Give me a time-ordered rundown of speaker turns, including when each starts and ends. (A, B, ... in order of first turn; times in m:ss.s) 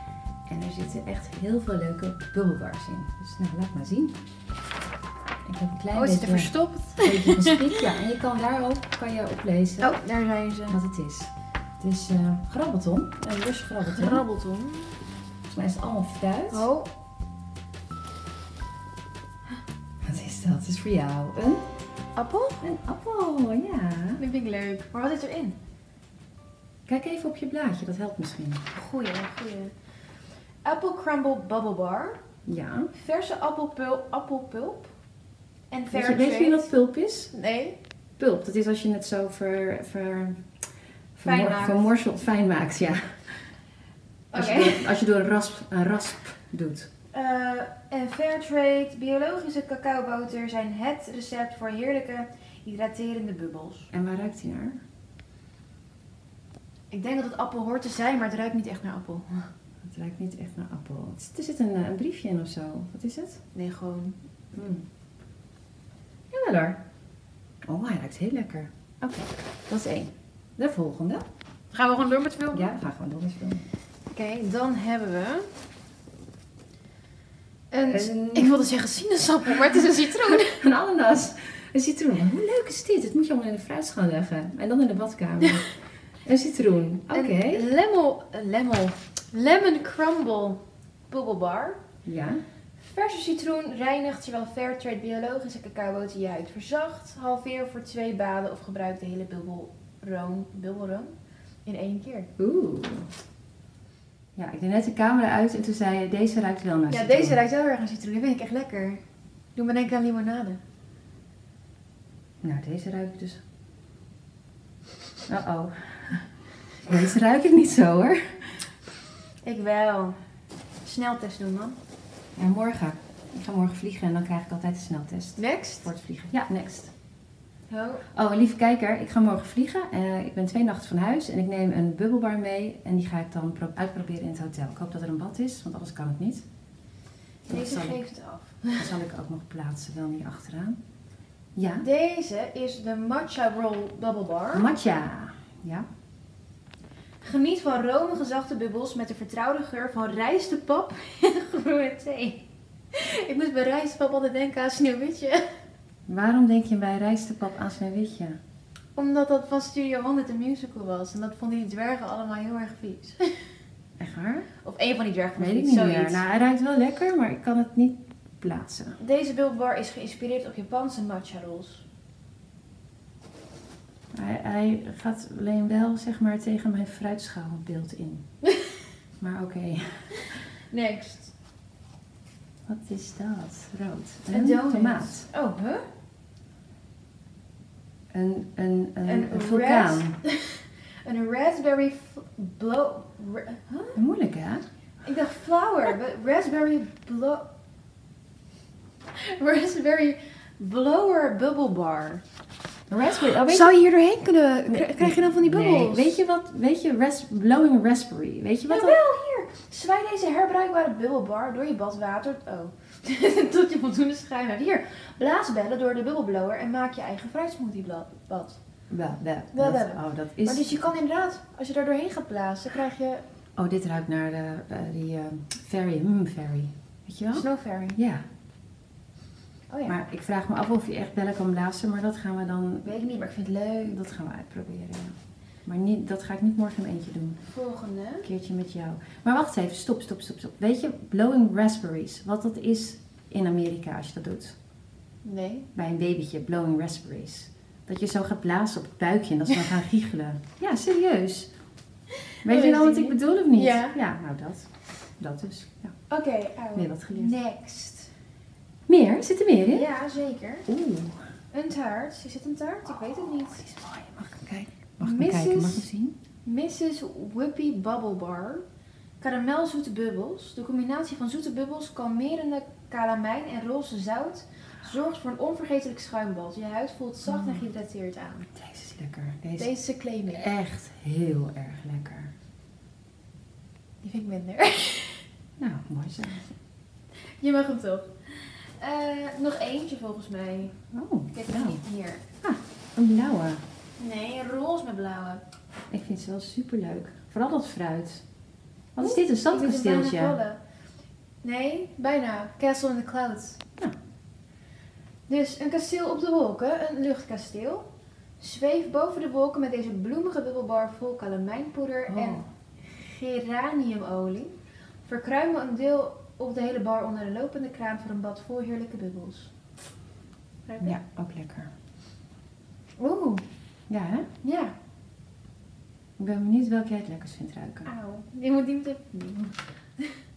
0:00.5-0:04.2 A
0:05.5-0:10.0 A
0:05.9-0:07.8 B
0:09.8-0:10.8 B
0:10.7-0:14.2 A
0:13.8-0:15.0 B
0:15.5-0:16.7 A
0:16.5-0:16.9 B
0:20.0-0:21.7 A
0:22.2-0:22.7 B
0:22.6-0:24.2 A
0:24.2-0:25.6 B
0:26.9-0:28.6 A
0:28.7-0:29.8 B
0:30.6-0:32.2 B
0:32.5-0:32.9 A
0:32.9-0:34.9 B
0:35.7-0:36.7 B
0:35.9-0:37.3 A
0:37.3-0:37.8 B
0:38.2-0:43.6 A
0:41.2-0:41.9 B
0:44.3-0:45.0 B
0:44.3-0:46.9 A
0:47.1-0:53.9 B
0:53.9-0:54.8 A
0:56.9-0:59.5 B
0:59.8-1:03.4 A
1:03.5-1:04.2 B
1:04.5-1:04.9 A
1:06.3-1:06.8 A
1:07.6-1:11.2 A
1:11.7-1:12.7 B
1:12.5-1:13.7 A
1:14.1-1:15.5 B
1:17.7-1:20.6 B
1:17.9-1:18.6 A
1:20.2-1:27.6 A
1:27.1-1:31.8 B
1:32.0-1:32.4 A
1:32.8-1:42.3 B
1:42.4-1:43.1 A
1:44.4-1:47.4 A
1:46.9-1:49.0 B
1:49.6-1:50.6 B
1:52.4-1:53.4 A
1:55.3-1:58.7 A
1:59.4-2:00.2 B
2:00.8-2:01.8 B
2:02.4-2:06.9 A
2:05.4-2:05.9 B
2:07.7-2:08.1 B
2:08.2-2:16.4 A
2:17.5-2:18.0 A
2:17.5-2:18.9 B
2:18.8-2:20.8 A
2:21.6-2:21.9 A
2:21.8-2:24.7 B
2:24.5-2:25.9 A
2:27.2-2:35.6 B
2:36.1-2:38.4 A
2:39.0-2:43.6 B
2:44.0-2:44.5 A
2:44.6-2:46.2 B
2:45.4-2:49.0 A
2:49.0-2:51.8 B
2:54.1-2:58.3 A
2:59.2-3:00.3 A
3:00.6-3:01.3 B
3:02.7-3:05.3 A
3:04.3-3:05.8 B
3:08.1-3:10.2 A
3:09.0-3:14.0 B
3:14.0-3:14.7 A
3:15.0-3:17.5 B
3:19.1-3:22.2 B
3:22.9-3:23.7 A
3:23.2-3:26.2 B
3:24.7-3:29.0 A
3:28.7-3:38.6 B
3:38.9-3:40.9 A
3:39.5-3:43.2 B
3:43.6-3:48.2 A
3:47.3-3:48.0 B
3:49.7-3:50.0 B
3:49.9-3:53.0 A
3:52.8-3:54.0 B
3:53.8-3:57.5 A
3:57.5-3:58.3 B
3:58.2-4:04.6 A
4:05.2-4:05.7 B
4:05.7-4:11.5 A
4:12.4-4:16.0 A
4:12.4-4:14.0 B
4:16.1-4:18.1 B
4:16.7-4:17.4 A
4:18.9-4:19.9 A
4:19.7-4:20.7 B
4:20.7-4:21.2 A
4:21.5-4:23.7 B
4:23.6-4:26.2 A
4:25.0-4:25.8 B
4:26.4-4:28.6 B
4:29.2-4:38.5 B
4:37.3-4:37.6 A
4:38.6-4:39.8 A
4:39.6-4:40.5 B
4:40.3-4:42.3 A
4:44.0-4:45.3 B
4:45.6-4:46.5 A
4:47.4-4:52.2 B
4:50.9-4:51.8 A
4:52.4-4:53.6 A
4:54.0-4:55.4 B
4:55.9-4:58.3 A
4:59.0-5:00.4 A
4:59.0-5:00.6 B
5:01.4-5:03.6 B
5:05.3-5:07.9 B
5:08.4-5:19.5 B
5:12.1-5:12.5 A
5:20.7-5:21.0 B
5:20.8-5:21.7 A
5:23.0-5:23.4 B
5:23.9-5:24.3 A
5:24.4-5:24.8 B
5:26.2-5:27.9 A
5:27.8-5:30.2 B